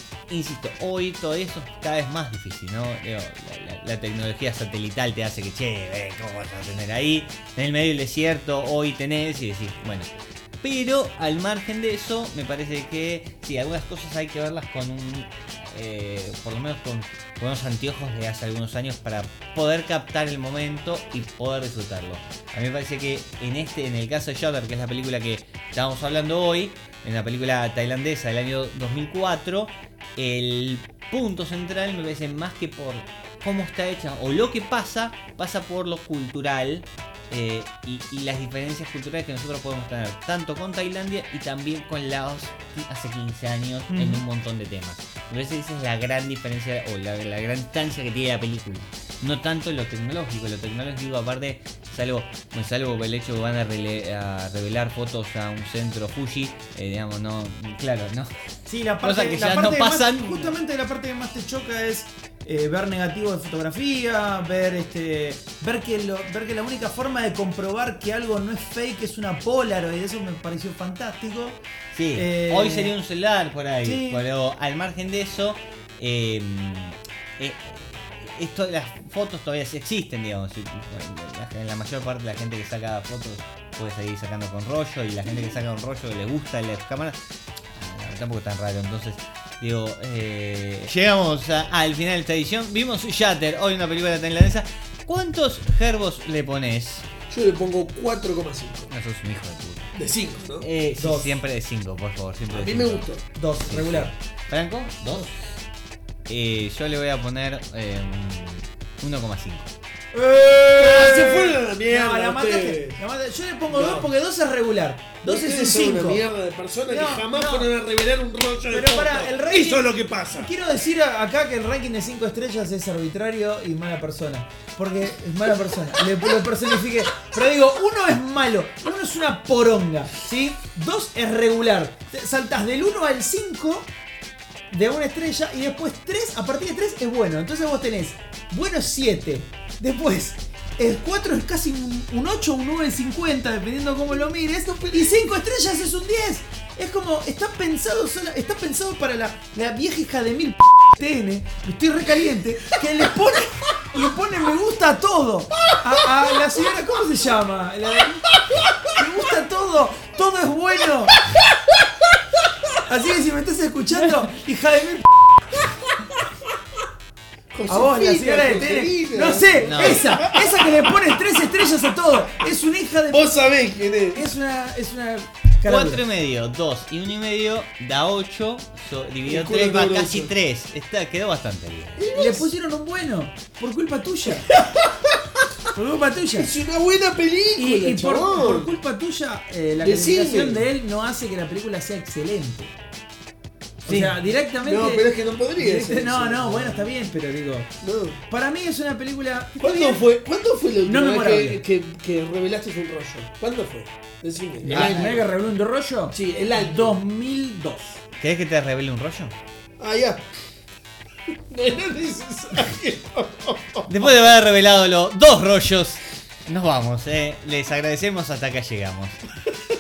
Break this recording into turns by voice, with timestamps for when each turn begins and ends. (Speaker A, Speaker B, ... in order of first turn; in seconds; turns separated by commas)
Speaker A: 0.3-10.1, Speaker A: 10.6-58.3, Speaker B: 43.9-44.2, Speaker B: 58.7-71.6, Speaker A: 59.0-60.6, Speaker A: 71.9-87.2, Speaker B: 72.1-73.0, Speaker B: 73.8-74.2, Speaker A: 87.8-97.1, Speaker C: 97.3-98.9, Speaker A: 98.9-99.9, Speaker C: 100.0-100.7, Speaker A: 100.6-103.1, Speaker B: 101.0-101.4, Speaker C: 102.5-103.3, Speaker B: 103.3-104.1, Speaker A: 103.6-105.3, Speaker A: 106.3-109.7, Speaker C: 110.1-113.0, Speaker B: 110.4-116.2, Speaker C: 113.7-114.1, Speaker C: 115.2-120.5, Speaker B: 116.9-117.7, Speaker B: 118.7-133.9, Speaker B: 134.7-158.3, Speaker C: 156.1-156.4, Speaker C: 158.5-159.0, Speaker B: 158.9-161.2, Speaker C: 161.3-161.8, Speaker B: 162.9-165.4, Speaker C: 167.5-172.5, Speaker B: 167.7-173.3, Speaker A: 169.6-170.1, Speaker C: 173.1-174.3, Speaker B: 174.1-176.0, Speaker A: 175.6-182.0, Speaker C: 179.3-180.3, Speaker C: 182.0-182.5, Speaker B: 182.1-184.5, Speaker C: 184.3-185.5, Speaker B: 185.8-186.5, Speaker C: 186.4-188.8, Speaker B: 187.6-192.7, Speaker C: 189.8-190.6, Speaker C: 193.8-196.9, Speaker B: 193.9-197.7, Speaker C: 197.8-198.2, Speaker B: 198.3-200.0, Speaker C: 199.6-205.2, Speaker B: 200.8-201.6, Speaker B: 204.6-208.0, Speaker A: 204.7-205.1, Speaker C: 206.1-207.0, Speaker A: 208.2-209.3, Speaker C: 209.8-210.3, Speaker C: 211.5-213.8, Speaker A: 213.9-219.2